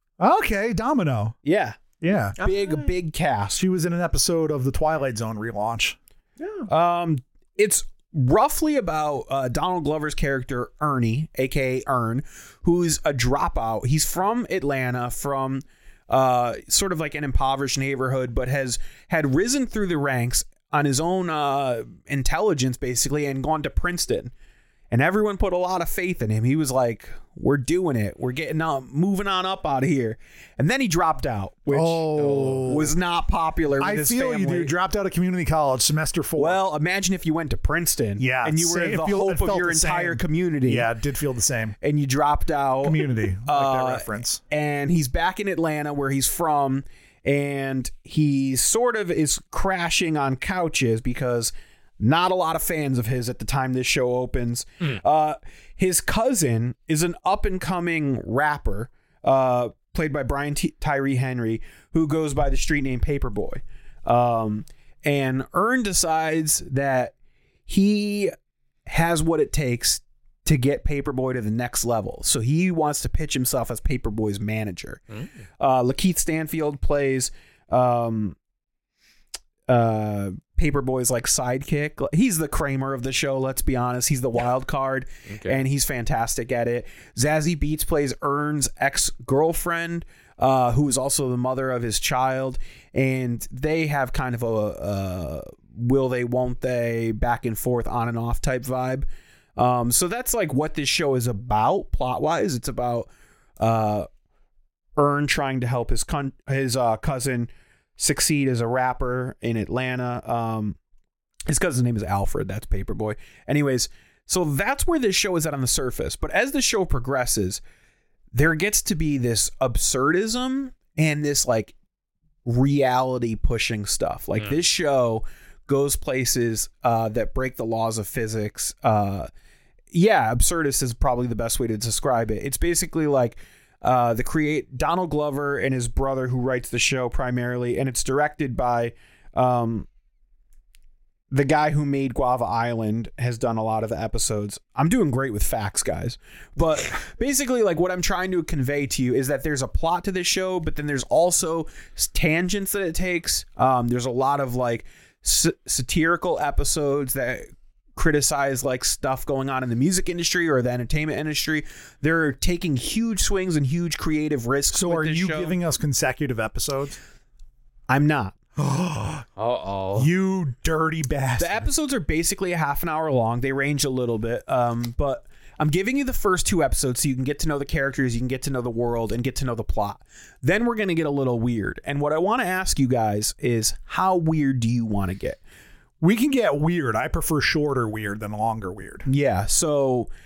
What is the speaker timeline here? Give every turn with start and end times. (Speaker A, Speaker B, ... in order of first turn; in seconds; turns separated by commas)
Speaker A: 0.2-1.4, Speaker B: 1.4-1.8, Speaker A: 2.0-2.4, Speaker B: 2.4-3.6, Speaker C: 2.4-2.9, Speaker A: 3.6-6.0, Speaker B: 6.7-24.3, Speaker B: 24.9-32.1, Speaker A: 31.7-33.0, Speaker C: 32.2-32.8, Speaker B: 32.6-34.7, Speaker A: 33.8-36.6, Speaker B: 36.4-40.9, Speaker A: 38.2-41.8, Speaker B: 41.8-67.2, Speaker A: 42.8-44.4, Speaker B: 67.7-68.3, Speaker B: 68.9-75.0, Speaker B: 75.6-78.4, Speaker B: 79.7-103.1, Speaker C: 85.3-85.6, Speaker B: 103.6-104.1, Speaker B: 105.0-110.8, Speaker B: 111.5-117.6, Speaker B: 118.3-121.8, Speaker B: 122.5-129.3, Speaker B: 129.9-139.9, Speaker B: 141.3-165.6, Speaker A: 164.7-167.0, Speaker B: 167.9-168.4, Speaker A: 168.6-169.3, Speaker C: 169.4-170.1, Speaker A: 170.0-171.7, Speaker B: 171.4-185.4, Speaker A: 186.0-189.1, Speaker B: 189.1-190.1